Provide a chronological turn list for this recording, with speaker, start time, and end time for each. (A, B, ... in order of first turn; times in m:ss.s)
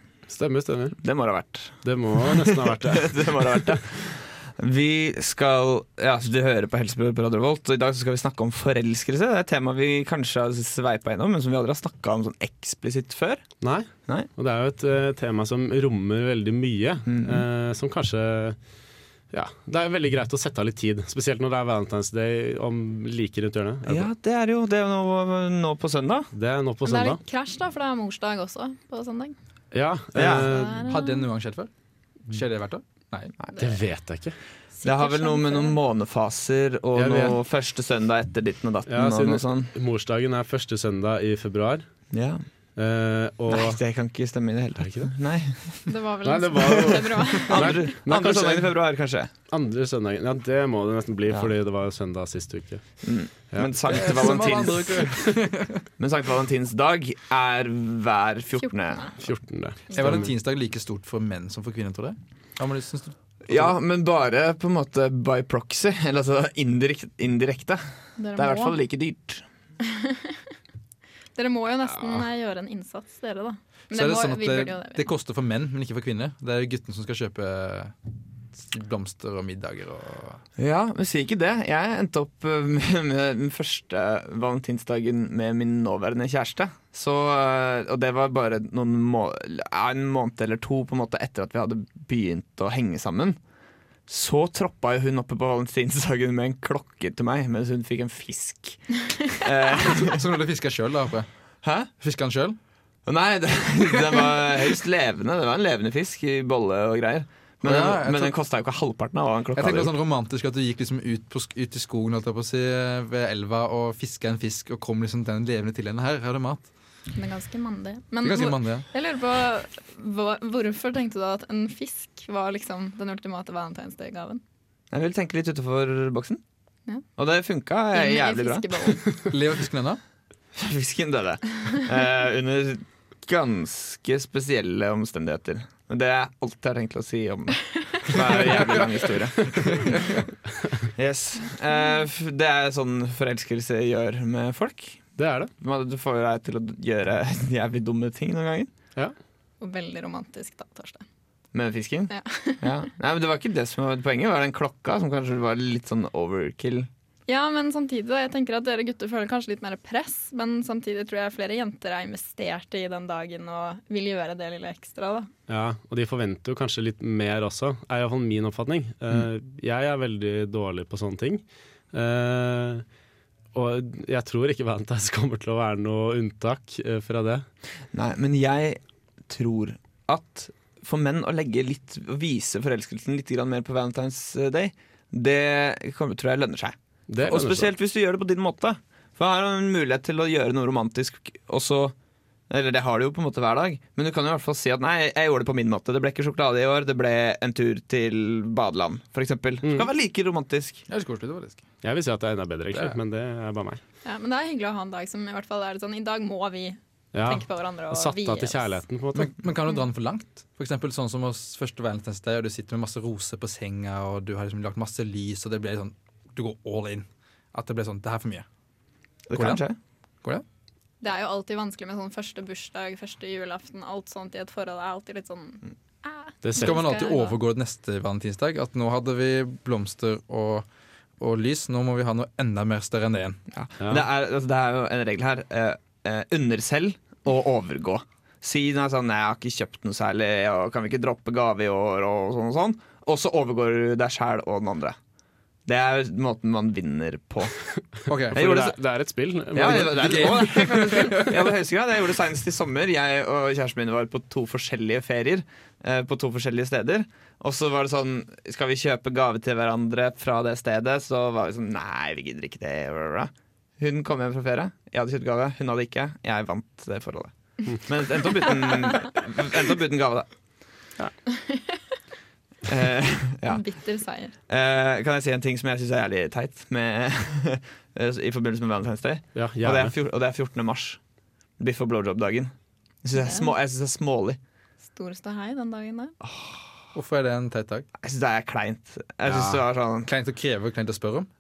0:00.3-0:01.0 A
0:01.0-0:13.5 B
0:01.8-0:03.8 A
0:13.6-0:18.6 A
0:17.1-0:17.4 B
0:19.3-0:24.1 A
0:23.9-0:26.3 B
0:26.3-0:27.2 A
0:26.8-0:29.4 C
0:29.7-0:30.8 A
0:30.2-0:30.5 B
0:30.4-0:31.3 C
0:30.6-0:31.7 D
0:32.2-0:33.3 D
0:33.6-0:34.4 A
0:34.8-0:35.8 C
0:34.8-0:39.7 B
0:37.0-0:37.4 A
0:38.9-0:41.8 A
0:42.1-0:42.4 B
0:42.8-0:43.8 A
0:43.5-0:45.9 B
0:44.8-0:45.1 A
0:45.9-0:47.8 C
0:46.2-0:48.7 A
0:46.6-0:49.3 B
0:49.5-0:52.8 A
0:53.0-0:55.3 B
0:53.5-0:54.7 A
0:53.9-0:55.8 D
0:56.0-0:59.1 B
0:58.6-0:59.1 C
0:59.2-1:00.3 A
0:59.9-1:03.7 D
1:03.4-1:07.8 B
1:08.2-1:08.8 C
1:08.4-1:09.4 B
1:09.8-1:10.4 C
1:11.4-1:15.1 C
1:13.9-1:18.0 D
1:18.5-1:20.4 D
1:20.6-1:33.4 B
1:34.1-1:40.3 B
1:40.0-1:41.3 D
1:41.6-1:41.9 B
1:42.0-1:42.6 D
1:43.1-1:49.9 B
1:47.6-1:48.3 D
1:49.5-1:56.7 D
1:57.2-2:04.4 C
1:58.2-1:58.9 D
2:04.9-2:06.4 B
2:07.2-2:09.0 B
2:07.9-2:09.0 C
2:09.3-2:10.0 D
2:10.6-2:20.2 B
2:18.5-2:20.1 D
2:21.0-2:28.7 B
2:25.2-2:25.5 A
2:29.6-2:31.0 C
2:31.5-2:36.9 B
2:32.1-2:32.6 C
2:37.3-2:45.3 C
2:45.5-2:52.8 A
2:53.5-2:57.4 A
2:57.9-3:11.9 B
3:07.1-3:07.7 A
3:12.5-3:20.8 B
3:19.6-3:19.9 A
3:20.9-3:21.6 D
3:21.8-3:23.8 A
3:22.7-3:23.0 D
3:24.0-3:28.8 C
3:27.1-3:29.4 A
3:29.2-3:38.5 D
3:39.3-3:39.8 B
3:39.3-3:39.6 D
3:41.0-3:47.4 C
3:46.4-3:46.8 A
3:46.6-3:50.7 D
3:51.2-3:53.4 D
3:53.5-4:05.0 B
4:05.7-4:07.5 B
4:08.1-4:08.4 D
4:08.3-4:10.5 A
4:08.3-4:08.8 B
4:09.5-4:30.3 B
4:09.6-4:11.5 D
4:31.3-4:32.0 C
4:32.7-4:33.6 B
4:33.5-4:34.3 C
4:34.5-4:41.0 B
4:39.4-4:39.9 A
4:41.6-4:42.5 B
4:43.0-4:44.4 B
4:43.1-4:43.5 C
4:44.8-4:46.1 C
4:46.2-4:46.7 B
4:47.0-4:47.9 D
4:48.0-4:50.1 B
4:49.3-4:49.6 A
4:50.1-4:51.3 D